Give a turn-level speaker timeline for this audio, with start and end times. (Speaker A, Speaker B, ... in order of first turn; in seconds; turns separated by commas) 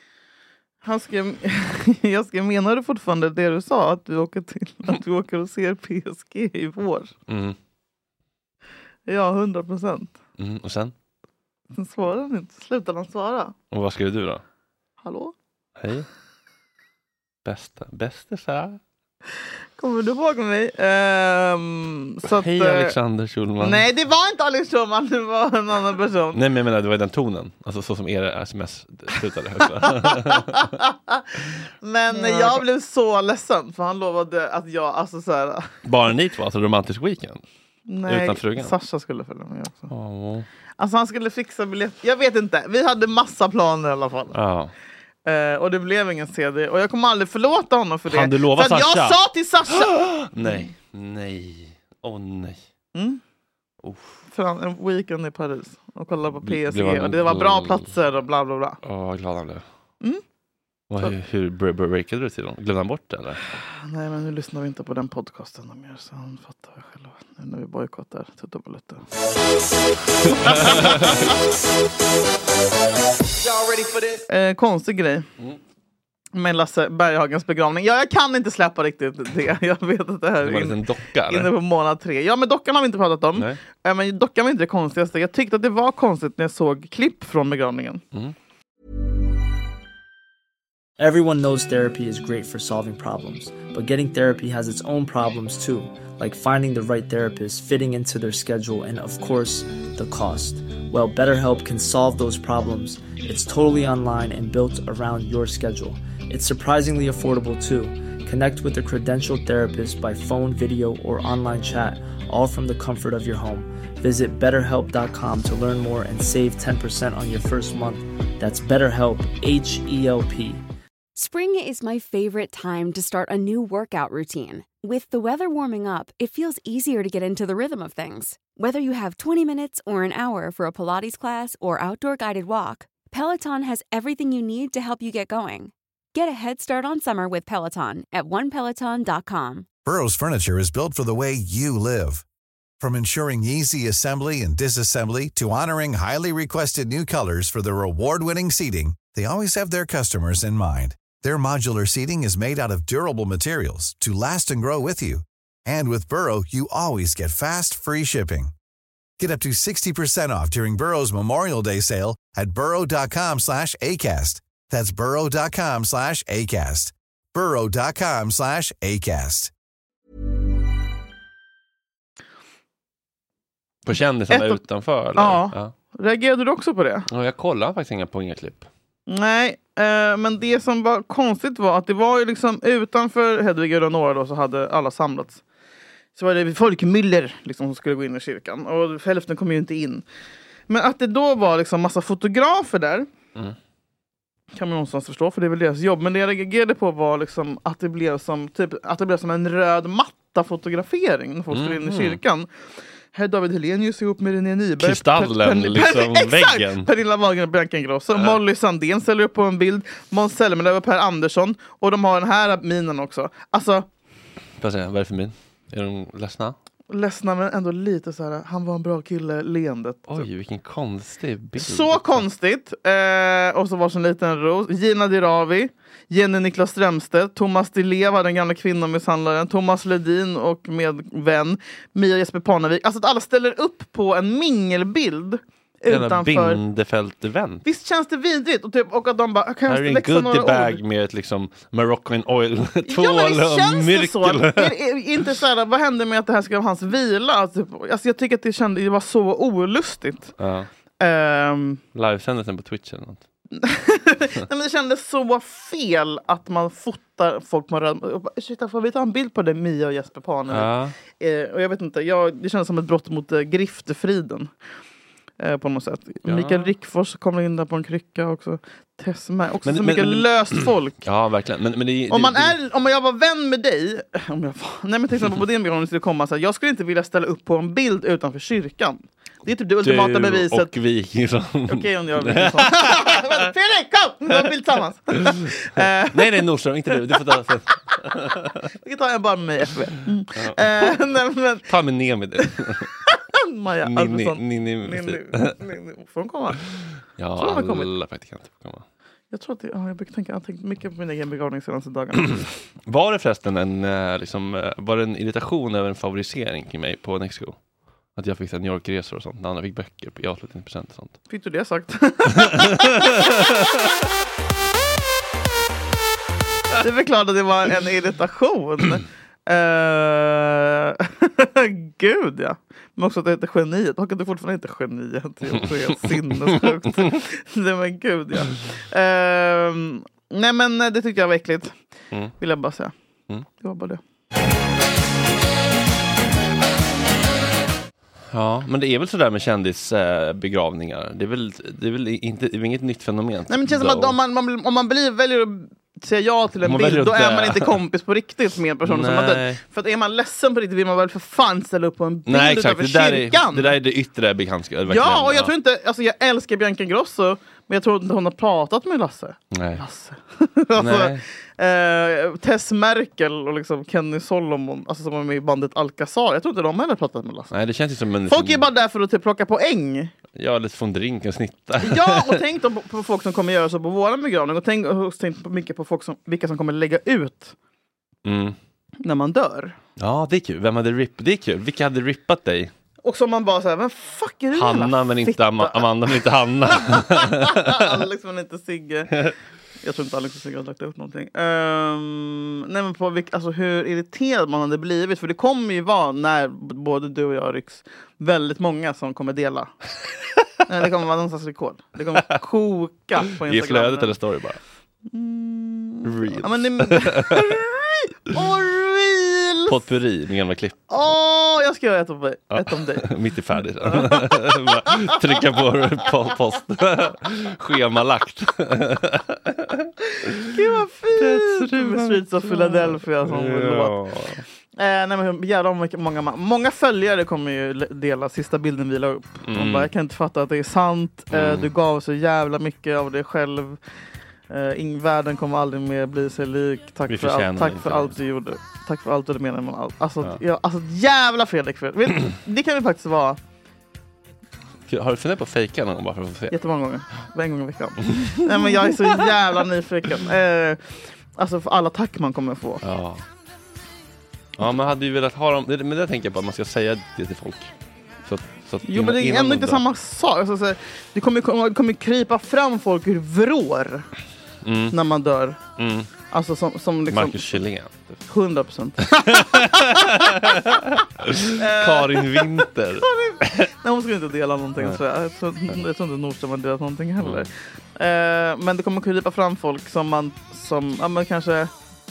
Speaker A: 0.8-7.1, Speaker B: 7.3-7.5, Speaker A: 9.1-10.1, Speaker B: 10.4-10.9, Speaker A: 11.7-13.5, Speaker B: 13.7-14.4, Speaker A: 15.0-15.3, Speaker B: 15.8-16.1, Speaker B: 17.4-18.8, Speaker A: 19.8-22.9, Speaker B: 22.3-23.8, Speaker A: 23.6-26.4, Speaker B: 26.3-30.7, Speaker A: 29.8-31.2, Speaker A: 31.8-35.7, Speaker B: 32.1-32.6, Speaker B: 35.8-37.4, Speaker A: 37.9-39.9, Speaker B: 38.1-38.7, Speaker B: 39.9-40.5, Speaker A: 40.8-44.4, Speaker B: 44.3-44.7, Speaker A: 45.2-50.6, Speaker B: 48.1-49.2, Speaker B: 49.7-52.6, Speaker A: 52.9-53.2, Speaker B: 53.8-54.2, Speaker A: 54.3-58.8, Speaker B: 56.4-57.9, Speaker B: 58.8-59.6, Speaker B: 60.9-63.4, Speaker A: 63.8-69.0, Speaker B: 70.3-71.3, Speaker A: 70.3-71.1, Speaker A: 74.1-75.3, Speaker A: 76.3-88.0, Speaker B: 80.4-81.5, Speaker C: 91.0-120.6, Speaker D: 121.1-139.7, Speaker E: 139.8-142.2, Speaker E: 142.8-158.5, Speaker E: 159.2-169.5, Speaker B: 173.8-175.7, Speaker A: 174.3-174.6, Speaker A: 175.1-177.1, Speaker B: 177.1-178.7, Speaker A: 179.1-185.4, Speaker A: 186.1-190.0, Speaker A: 190.7-193.1, Speaker A: 194.5-202.5, Speaker B: 201.5-202.2, Speaker A: 203.1-213.8, Speaker B: 204.8-206.9, Speaker B: 208.1-208.4, Speaker B: 214.6-216.6, Speaker A: 216.9-220.2, Speaker B: 220.1-222.2, Speaker A: 221.6-236.6, Speaker B: 235.9-237.6, Speaker A: 237.6-240.8, Speaker B: 239.7-244.8, Speaker A: 242.9-250.3, Speaker B: 250.4-250.7, Speaker A: 251.0-251.8, Speaker B: 251.9-253.2, Speaker A: 253.5-264.5, Speaker B: 260.5-260.9, Speaker A: 265.4-271.0, Speaker B: 266.2-266.7, Speaker B: 269.6-272.6, Speaker A: 272.1-280.7, Speaker B: 279.8-283.4, Speaker A: 281.7-286.4, Speaker B: 285.1-288.6, Speaker A: 288.8-291.6, Speaker B: 290.3-291.0, Speaker B: 291.7-292.9, Speaker A: 293.1-296.7, Speaker B: 293.8-295.5, Speaker B: 297.2-298.8, Speaker A: 297.4-297.9, Speaker A: 299.3-302.5, Speaker B: 302.9-307.6, Speaker B: 308.1-311.2, Speaker A: 311.3-313.5, Speaker A: 316.8-331.7, Speaker A: 332.4-332.9, Speaker A: 333.6-334.0, Speaker B: 338.3-344.1, Speaker A: 343.5-353.8, Speaker B: 346.6-347.8, Speaker B: 348.8-349.6, Speaker B: 352.3-355.5, Speaker A: 354.9-367.5, Speaker B: 359.5-359.8, Speaker B: 360.7-361.2, Speaker B: 367.5-368.7, Speaker A: 368.3-370.1, Speaker B: 370.4-372.4, Speaker A: 371.8-377.5, Speaker B: 378.2-378.6, Speaker A: 379.0-379.8, Speaker B: 380.0-382.7, Speaker A: 383.0-386.1, Speaker B: 384.5-387.9, Speaker A: 386.8-399.7, Speaker A: 400.6-404.1, Speaker B: 403.4-404.6, Speaker A: 405.1-409.8, Speaker B: 406.0-407.6, Speaker B: 409.7-410.8, Speaker A: 410.9-413.1, Speaker B: 412.5-419.8, Speaker A: 413.9-414.9, Speaker A: 420.5-423.9, Speaker B: 421.2-424.4, Speaker A: 424.8-433.8, Speaker B: 429.5-429.9, Speaker B: 431.3-431.7, Speaker A: 434.5-443.4, Speaker B: 437.1-438.1, Speaker B: 444.9-446.6, Speaker A: 446.5-452.8, Speaker B: 448.1-448.8, Speaker B: 452.8-453.2, Speaker B: 454.6-457.7, Speaker B: 458.2-459.8, Speaker A: 458.9-464.1, Speaker B: 464.6-464.9, Speaker A: 464.9-465.6, Speaker B: 465.8-466.1, Speaker A: 466.3-467.6, Speaker B: 467.1-468.2, Speaker A: 468.3-470.5, Speaker B: 469.1-473.6, Speaker A: 471.5-481.7, Speaker B: 477.2-477.4